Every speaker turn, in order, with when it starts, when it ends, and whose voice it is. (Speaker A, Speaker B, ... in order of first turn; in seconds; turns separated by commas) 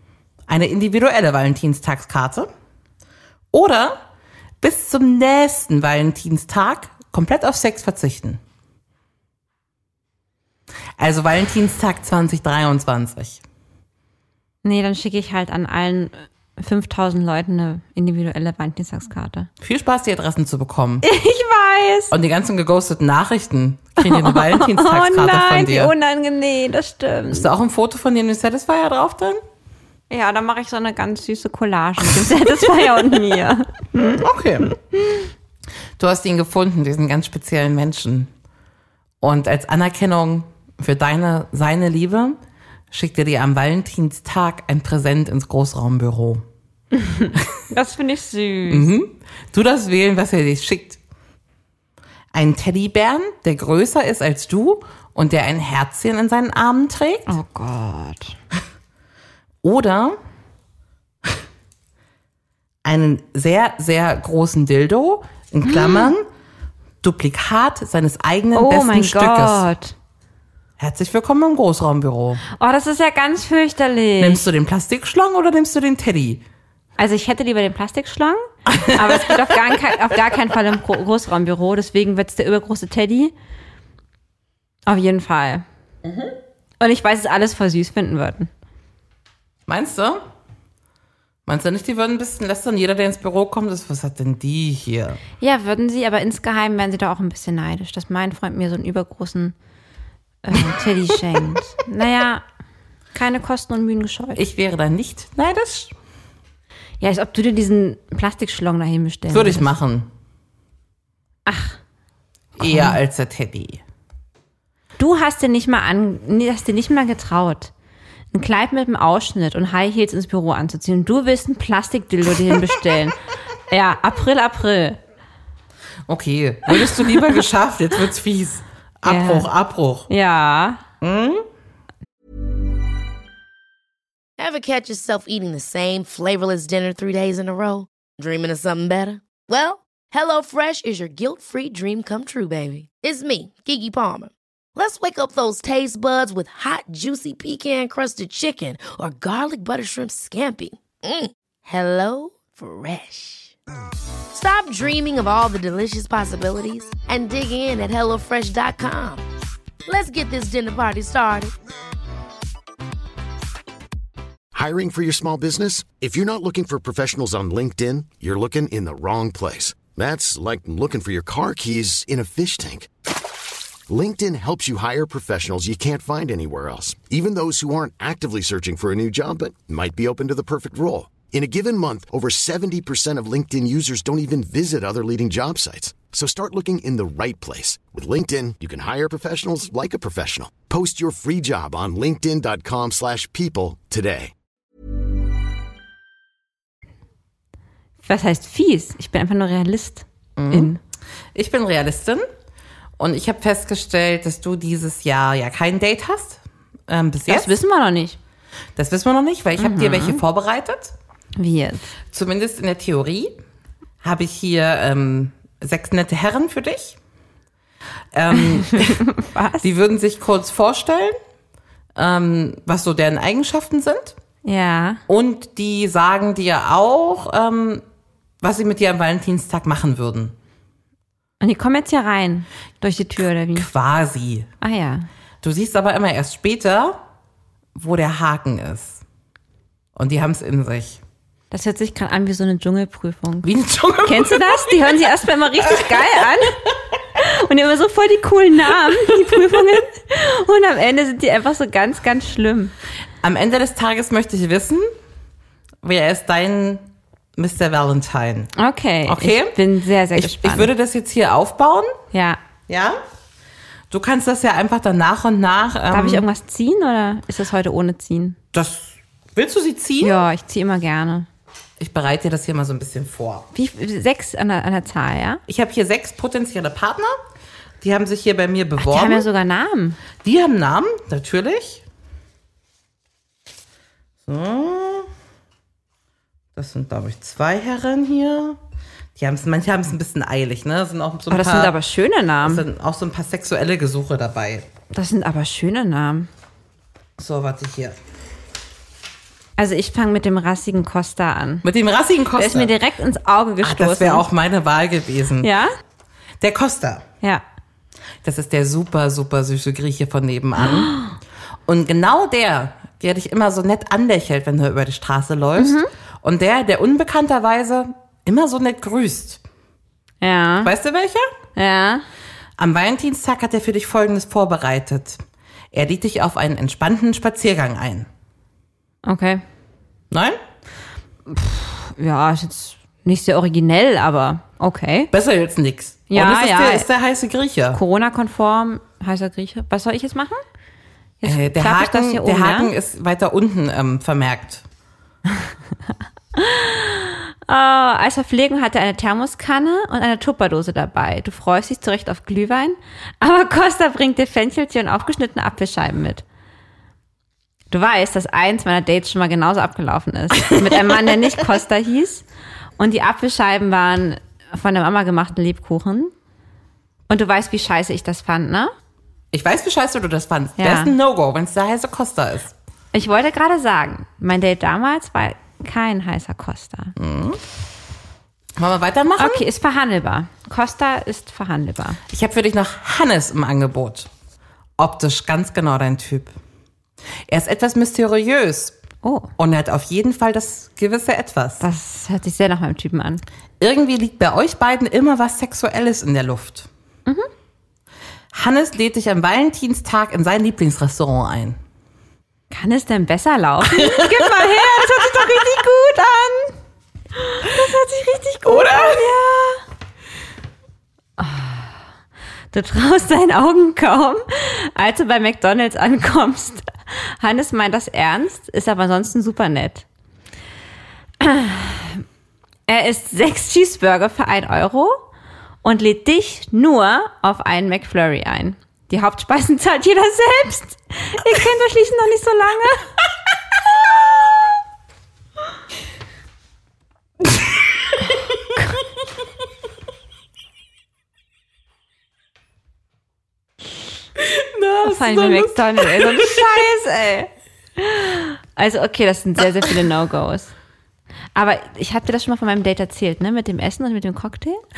Speaker A: 0.5-2.5, Speaker A: 3.5-4.0, Speaker A: 4.6-8.4, Speaker A: 11.0-13.4, Speaker B: 14.6-19.5, Speaker A: 19.6-21.0, Speaker B: 21.0-22.1, Speaker A: 22.1-25.9, Speaker B: 24.0-27.4, Speaker A: 27.3-29.4, Speaker B: 30.1-35.2, Speaker A: 34.2-34.7, Speaker A: 36.0-38.3, Speaker A: 39.2-42.4, Speaker A: 42.9-46.4, Speaker B: 47.0-48.9, Speaker A: 48.7-51.0, Speaker A: 52.3-57.3, Speaker B: 57.3-58.4, Speaker A: 59.6-60.2, Speaker A: 62.8-66.2, Speaker B: 65.7-66.1, Speaker A: 67.0-69.6, Speaker B: 68.5-69.9, Speaker A: 70.8-72.4, Speaker B: 72.5-74.5, Speaker A: 74.2-76.4, Speaker B: 77.0-83.3, Speaker A: 78.7-79.5, Speaker B: 84.8-85.6, Speaker A: 86.0-86.3, Speaker B: 86.8-88.5, Speaker A: 89.7-90.2, Speaker A: 91.5-95.2, Speaker B: 95.4-99.5, Speaker B: 100.4-102.4, Speaker B: 103.1-104.4, Speaker A: 104.3-105.9, Speaker B: 107.0-109.7, Speaker A: 109.3-110.1, Speaker B: 111.5-111.8, Speaker B: 112.6-113.0, Speaker A: 112.6-113.8, Speaker B: 115.0-117.7, Speaker B: 118.3-123.2, Speaker B: 123.7-125.0, Speaker A: 126.1-130.1, Speaker B: 126.7-127.4, Speaker B: 129.1-129.5, Speaker B: 130.1-130.8, Speaker A: 131.0-131.4, Speaker C: 134.4-153.5, Speaker C: 154.3-159.2, Speaker C: 159.8-161.5, Speaker D: 164.5-172.9, Speaker D: 173.9-194.3, Speaker B: 198.0-200.8, Speaker A: 200.3-200.8, Speaker A: 201.3-202.2, Speaker A: 203.0-207.6, Speaker B: 207.3-208.2, Speaker A: 208.8-210.9, Speaker B: 209.6-210.2, Speaker B: 211.4-211.9, Speaker A: 212.1-213.3, Speaker A: 214.0-217.0, Speaker A: 218.1-219.0, Speaker B: 218.3-219.7, Speaker A: 219.6-221.2, Speaker A: 221.9-224.2, Speaker B: 224.4-225.0, Speaker A: 225.1-227.8, Speaker A: 228.4-230.3, Speaker B: 231.4-233.7, Speaker A: 233.6-234.5, Speaker B: 234.6-235.1, Speaker A: 235.4-237.0, Speaker A: 237.8-239.0, Speaker A: 239.9-241.0, Speaker B: 241.5-243.5, Speaker A: 243.4-245.0, Speaker B: 244.0-246.6, Speaker A: 245.7-246.1, Speaker B: 247.1-252.7, Speaker A: 253.2-254.9, Speaker A: 255.8-256.8, Speaker A: 257.4-258.5, Speaker B: 258.6-260.7, Speaker A: 259.1-259.6, Speaker A: 260.1-261.9, Speaker B: 262.1-262.4, Speaker A: 262.7-263.0, Speaker A: 263.9-266.2, Speaker B: 265.9-268.4, Speaker A: 268.5-270.2, Speaker B: 270.0-271.3, Speaker A: 271.8-273.4, Speaker B: 273.5-275.4, Speaker A: 275.5-277.1, Speaker A: 277.8-279.2, Speaker B: 278.8-280.0, Speaker A: 280.2-281.8, Speaker A: 284.2-285.1, Speaker A: 286.6-288.6, Speaker A: 289.2-291.7, Speaker B: 291.3-292.6, Speaker A: 292.4-294.7, Speaker B: 294.9-296.3, Speaker A: 297.2-297.9, Speaker B: 299.6-301.6, Speaker A: 301.6-302.7, Speaker B: 302.4-304.2, Speaker A: 303.6-305.5, Speaker B: 305.4-305.7, Speaker A: 306.4-307.0, Speaker A: 308.2-310.9, Speaker B: 310.6-311.1, Speaker A: 311.7-319.4, Speaker B: 315.6-315.9, Speaker B: 320.2-320.7, Speaker A: 320.6-321.3, Speaker B: 321.6-322.0, Speaker A: 322.6-325.2, Speaker A: 325.7-328.1, Speaker B: 329.0-329.4, Speaker A: 330.1-330.4, Speaker B: 331.3-335.1, Speaker A: 335.1-337.8, Speaker B: 336.1-336.9, Speaker B: 337.7-340.4, Speaker B: 341.2-342.7, Speaker A: 341.2-344.6, Speaker B: 346.4-356.2, Speaker B: 357.7-362.2, Speaker B: 362.8-366.1, Speaker B: 367.1-368.7, Speaker A: 369.3-372.5, Speaker B: 370.6-370.9, Speaker B: 372.9-376.9, Speaker A: 377.0-377.4, Speaker A: 378.6-379.4, Speaker B: 379.2-382.0, Speaker A: 382.1-384.1, Speaker A: 384.8-386.3, Speaker A: 387.3-388.8, Speaker B: 389.0-389.3, Speaker A: 389.4-391.6, Speaker B: 391.6-393.2, Speaker A: 393.6-396.7, Speaker A: 398.3-401.6, Speaker B: 402.5-406.6, Speaker A: 403.7-405.2, Speaker B: 407.2-409.6, Speaker A: 408.4-409.1, Speaker B: 411.2-411.7, Speaker B: 412.5-419.8, Speaker B: 421.2-422.0, Speaker B: 422.7-425.0, Speaker B: 425.6-432.9, Speaker A: 444.2-446.5, Speaker B: 444.8-450.5, Speaker B: 451.3-454.6